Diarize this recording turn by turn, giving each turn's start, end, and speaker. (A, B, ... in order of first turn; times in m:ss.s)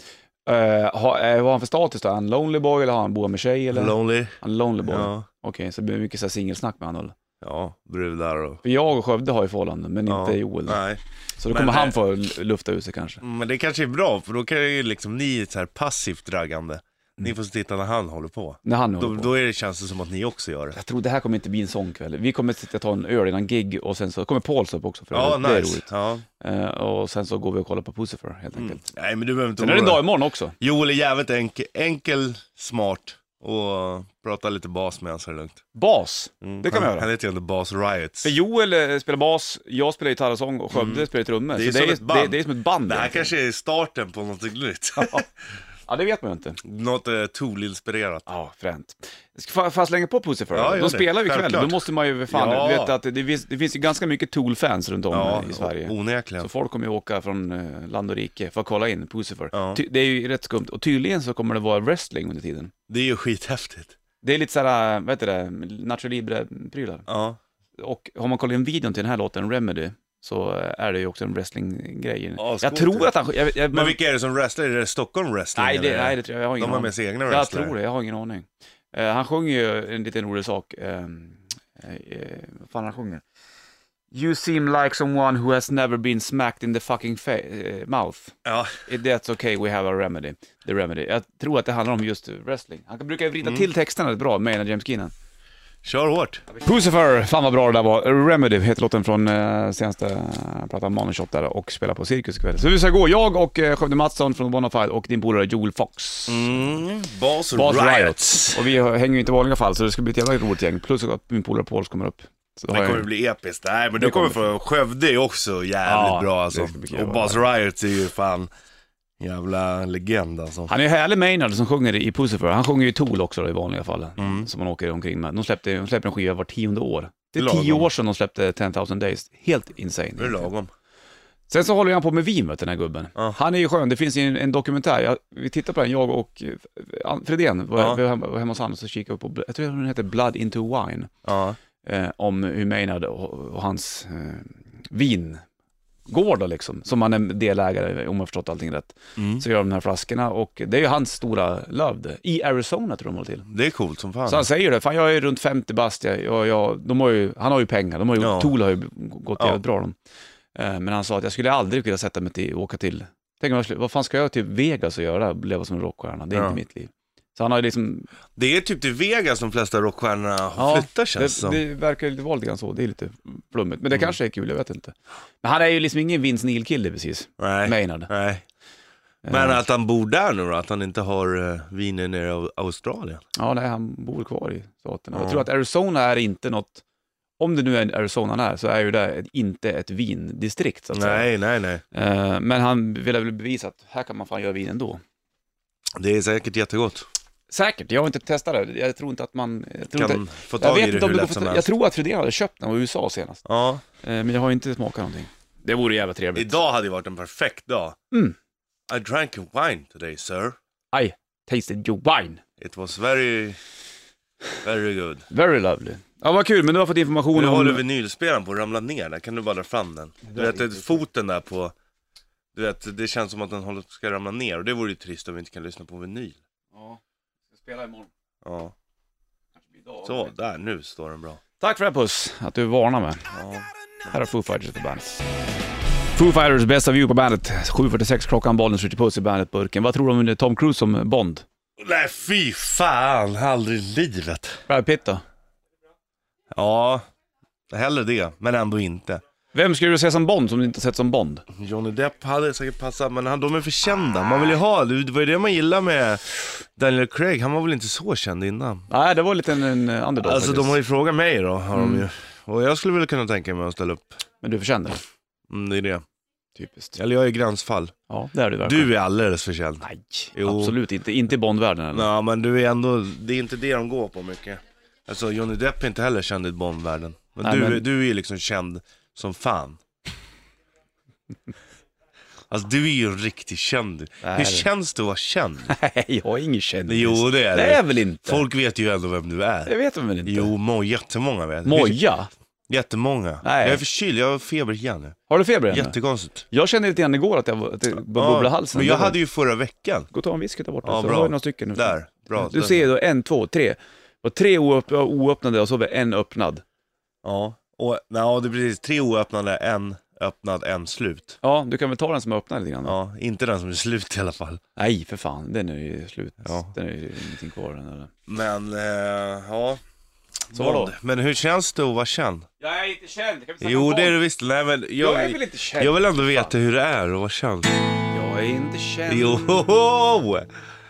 0:00.4-0:07.1 A
0:03.7-0:05.3 B
0:07.4-0:08.6 B
0:08.6-0:10.8 A
0:10.1-0:12.0 B
0:11.4-0:13.2 A
0:13.2-0:20.8 B
0:18.6-0:19.3 A
0:20.8-0:25.8 A
0:25.1-0:26.2 B
0:26.4-0:28.8 A
0:28.5-0:30.0 B
0:29.6-0:30.6 A
0:30.6-0:35.6 B
0:35.7-0:37.1 A
0:36.4-0:38.3 B
0:38.2-0:43.3 A
0:40.7-0:45.3 B
0:45.9-0:46.6 A
0:46.6-0:48.2 B
0:48.3-1:02.7 A
0:50.5-0:53.0 B
0:55.1-0:56.5 B
0:59.5-0:59.8 B
1:02.9-1:03.9 B
1:04.2-1:07.1 A
1:07.1-1:07.4 B
1:07.8-1:14.0 A
1:12.4-1:13.1 B
1:13.7-1:17.7 B
1:15.5-1:23.2 A
1:24.1-1:28.3 A
1:28.4-1:28.8 B
1:28.9-1:35.1 A
1:33.4-1:33.7 B
1:35.8-1:36.4 B
1:36.6-1:46.6 A
1:46.3-1:48.7 B
1:47.5-1:53.1 A
1:52.7-1:58.5 B
1:54.0-1:54.5 A
1:55.8-1:57.4 A
1:59.2-2:00.7 B
2:00.7-2:10.5 A
2:04.2-2:04.5 B
2:07.4-2:07.9 B
2:10.2-2:10.7 B
2:11.5-2:21.1 A
2:17.8-2:18.0 B
2:21.2-2:21.6 B
2:21.8-2:25.4 A
2:26.1-2:33.5 A
2:29.2-2:29.4 B
2:33.5-2:34.5 B
2:34.2-2:39.9 A
2:38.2-2:38.5 B
2:40.5-2:48.1 A
2:46.3-2:46.6 B
2:48.3-2:51.6 B
2:50.6-2:58.1 A
2:57.4-2:58.4 B
2:59.2-2:59.6 A
2:59.3-3:03.2 B
3:03.4-3:06.8 A
3:05.1-3:05.5 B
3:07.4-3:11.3 A
3:10.9-3:11.8 B
3:11.9-3:15.0 A
3:16.0-3:17.1 B
3:17.5-3:23.4 A
3:20.0-3:21.7 B
3:23.4-3:23.8 B
3:24.0-3:26.6 A
3:26.3-3:28.0 B
3:28.9-3:30.6 B
3:30.9-3:32.4 A
3:32.6-3:33.6 B
3:34.6-3:35.3 B
3:35.3-3:37.8 A
3:37.3-3:41.7 B
3:40.2-3:41.0 A
3:42.5-3:46.4 B
3:46.7-3:47.0 A
3:47.5-3:48.1 A
3:48.4-3:48.7 B
3:49.7-3:50.3 A
3:50.0-3:51.4 B
3:51.6-3:53.3 A
3:53.3-3:53.7 B
3:54.0-3:55.2 A
3:56.2-4:01.4 A
4:01.8-4:04.6 B
4:04.7-4:05.2 A
4:06.5-4:07.0 B
4:07.7-4:09.2 B
4:09.5-4:11.4 A
4:11.5-4:18.9 B
4:18.9-4:20.8 A
4:20.2-4:24.2 B
4:21.7-4:22.1 A
4:24.4-4:25.0 A
4:25.5-4:26.0 B
4:26.6-4:27.0 A
4:27.0-4:27.9 B
4:28.1-4:28.9 A
4:28.6-4:30.8 B
4:29.8-4:32.1 A
4:31.9-4:39.8 B
4:37.4-4:37.8 A
4:42.5-4:45.7 B
4:44.2-4:44.7 A
4:45.7-4:48.4 A
4:46.9-4:49.7 B
4:49.6-4:50.5 A
4:50.2-4:52.0 B
4:51.6-4:52.3 A
4:52.7-4:55.2 B
4:53.4-4:53.8 A
4:55.3-4:55.9 A
4:55.7-4:56.4 B
4:56.5-4:59.2 A
4:58.1-5:00.1 B
5:00.1-5:06.6 A
5:00.8-5:02.9 B
5:07.2-5:11.4 B
5:11.4-5:13.0 A
5:12.8-5:14.6 B
5:14.8-5:18.1 A
5:16.4-5:16.7 B
5:18.3-5:19.8 B
5:20.5-5:22.4 B
5:20.5-5:20.9 A
5:22.6-5:24.2 A
5:23.6-5:27.7 B
5:25.0-5:26.5 A
5:28.1-5:29.6 A
5:29.1-5:30.5 B